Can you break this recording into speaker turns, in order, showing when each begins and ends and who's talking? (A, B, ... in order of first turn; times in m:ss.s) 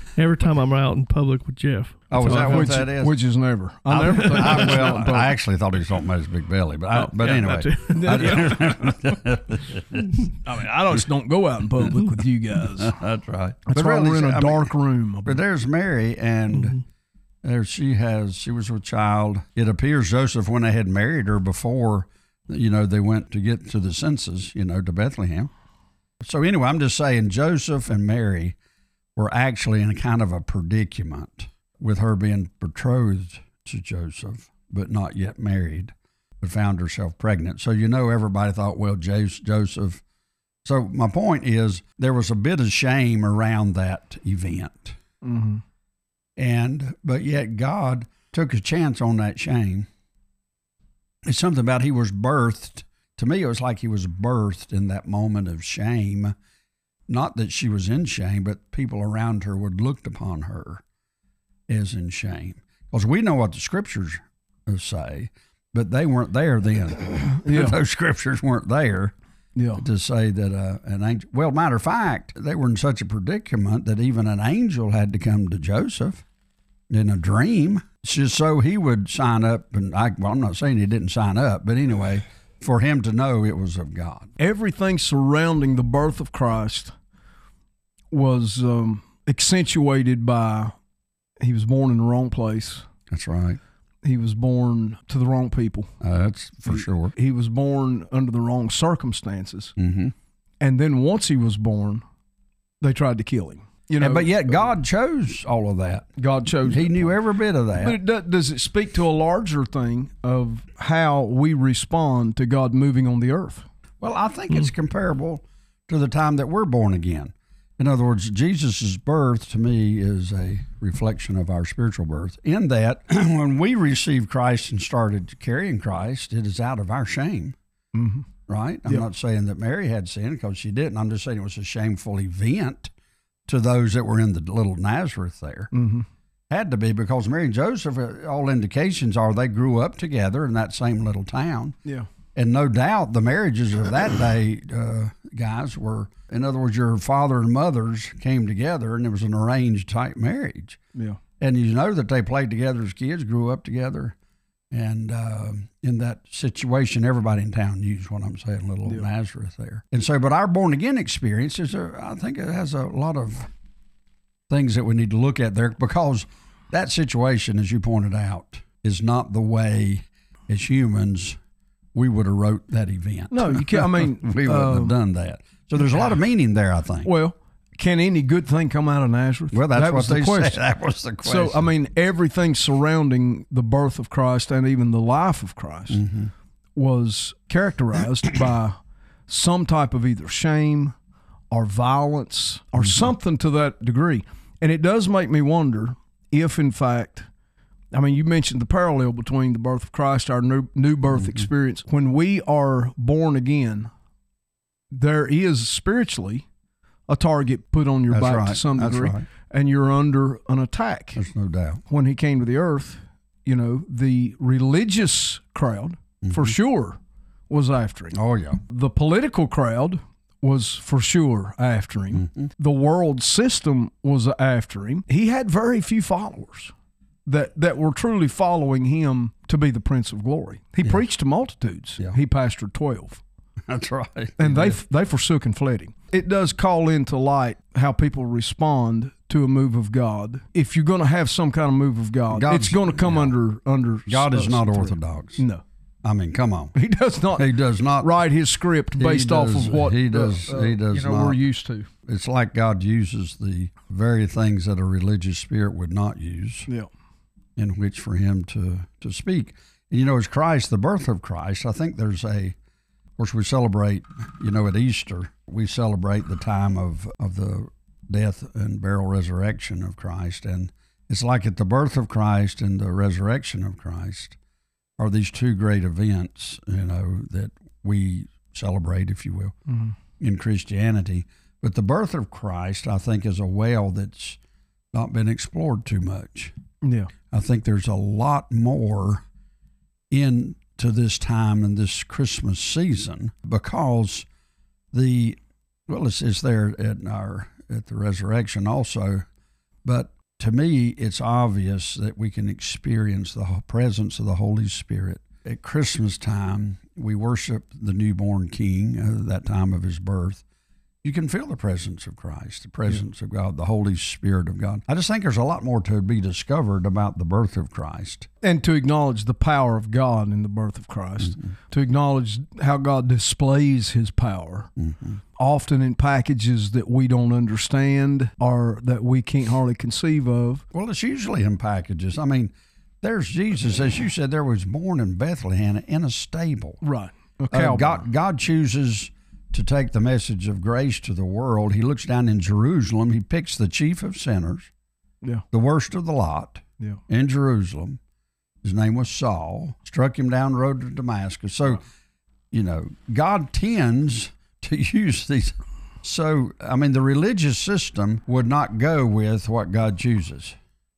0:00.2-0:02.8 A
0:02.1-0:03.2 B
0:02.2-0:05.3 C
0:03.9-0:10.2 B
0:06.9-0:08.7 A
0:07.9-0:08.7 C
0:10.4-0:13.0 C
0:12.6-0:14.7 B
0:13.7-0:15.4 C
0:15.2-0:16.8 B
0:16.5-0:16.8 A
0:17.4-0:25.5 B
0:26.2-0:28.6 B
0:29.2-0:40.0 B
0:40.6-0:45.0 B
0:45.2-0:45.6 C
0:46.4-0:49.9 B
0:51.2-0:56.3 B
0:57.1-1:00.8 B
1:01.7-1:09.1 B
1:07.4-1:07.8 C
1:09.6-1:09.8 C
1:09.8-1:16.2 B
1:16.9-1:24.3 B
1:24.4-1:26.9 C
1:28.1-1:30.7 C
1:31.4-1:32.8 C
1:33.1-1:33.6 B
1:34.0-1:35.9 C
1:36.0-1:37.1 B
1:36.7-1:39.7 C
1:39.8-1:40.1 B
1:40.6-1:42.0 C
1:42.8-1:44.6 C
1:44.0-1:46.1 B
1:46.2-1:47.2 C
1:46.6-1:48.0 B
1:47.7-1:53.7 C
1:54.0-2:07.6 B
2:07.9-2:08.3 C
2:08.5-2:12.9 B
2:13.5-2:15.7 B
2:15.7-2:16.0 C
2:16.5-2:21.8 B
2:22.3-2:30.8 B
2:30.9-2:31.2 C
2:31.4-2:34.1 B
2:34.7-2:43.5 B
2:44.5-2:51.4 B
2:51.9-2:57.1 B
2:53.3-2:55.0 C
2:57.0-3:00.6 C
2:59.5-3:01.7 B
3:01.2-3:06.0 C
3:05.9-3:06.3 B
3:06.7-3:10.9 C
3:11.5-3:17.3 C
3:12.8-3:13.0 B
3:17.9-3:23.9 C
3:21.1-3:21.5 B
3:24.9-3:26.4 C
3:27.1-3:31.2 C
3:28.1-3:29.2 B
3:31.2-3:31.8 B
3:31.9-3:37.0 C
3:36.2-3:36.5 B
3:37.5-3:46.7 C
3:38.1-3:38.6 B
3:42.1-3:42.5 B
3:47.2-3:53.2 C
3:53.7-3:54.8 B
3:54.4-4:05.6 C
4:02.3-4:03.4 B
4:04.1-4:05.4 B
4:06.0-4:06.7 B
4:06.7-4:11.9 C
4:07.3-4:08.1 B
4:08.9-4:11.4 B
4:12.0-4:16.7 B
4:17.6-4:22.6 B
4:23.2-4:34.4 B
4:35.0-4:39.5 B
4:39.7-4:39.9 C
4:40.2-4:44.4 B
4:44.9-4:46.5 B
4:46.8-4:47.1 C
4:47.3-4:49.2 B
4:50.1-4:54.2 B
4:54.9-4:59.2 B
4:59.8-5:10.4 B
5:11.0-5:18.3 B
5:18.4-5:24.7 C
5:24.8-5:25.2 B
5:25.4-5:30.6 C
5:30.7-5:36.8 B
5:36.8-5:38.0 C
5:37.5-5:44.7 B
5:45.5-5:48.0 B
5:48.6-5:51.8 B
5:52.5-6:00.6 B